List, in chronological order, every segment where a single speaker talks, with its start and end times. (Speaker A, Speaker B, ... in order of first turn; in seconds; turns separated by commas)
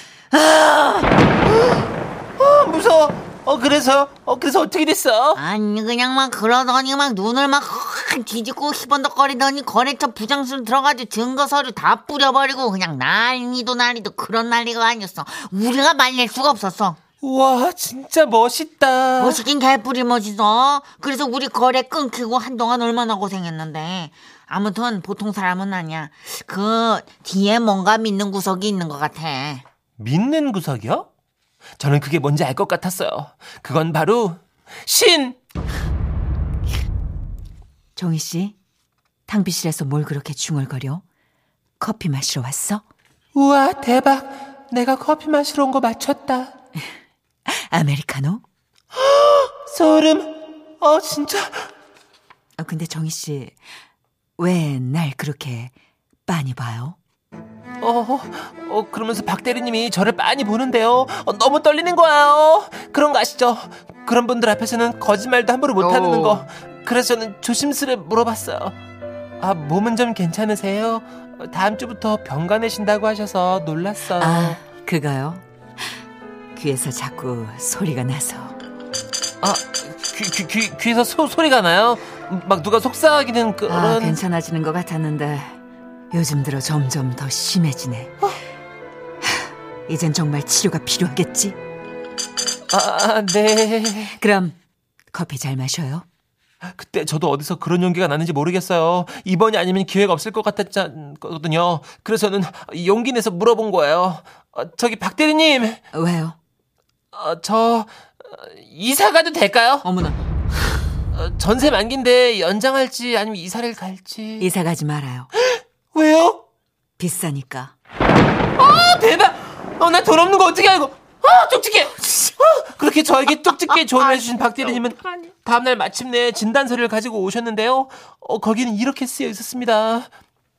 Speaker A: 0.3-1.8, Speaker A: 2.4-5.4, Speaker B: 5.3-17.0, Speaker A: 17.2-19.4, Speaker B: 19.2-29.6, Speaker A: 30.0-31.1, Speaker A: 31.8-35.4, Speaker C: 38.0-38.5, Speaker C: 39.3-41.0, Speaker C: 41.8-42.8, Speaker A: 43.3-46.5, Speaker C: 47.5-48.4, Speaker A: 48.9-51.7, Speaker C: 52.6-53.5, Speaker C: 54.4-55.7, Speaker C: 56.3-57.0, Speaker A: 57.8-68.8, Speaker C: 65.8-66.5, Speaker A: 69.4-74.6, Speaker C: 74.1-75.4, Speaker C: 76.5-78.5, Speaker A: 79.4-84.2, Speaker C: 83.7-85.5, Speaker C: 86.1-88.1, Speaker C: 89.9-91.5, Speaker A: 92.7-94.2, Speaker C: 94.1-94.5, Speaker C: 95.1-96.0, Speaker A: 96.6-105.8, Speaker C: 105.9-106.3, Speaker A: 107.1-109.8, Speaker C: 109.8-110.2, Speaker A: 111.1-114.5, Speaker C: 114.4-115.3, Speaker A: 115.3-116.4, Speaker C: 117.0-117.7, Speaker A: 118.6-130.1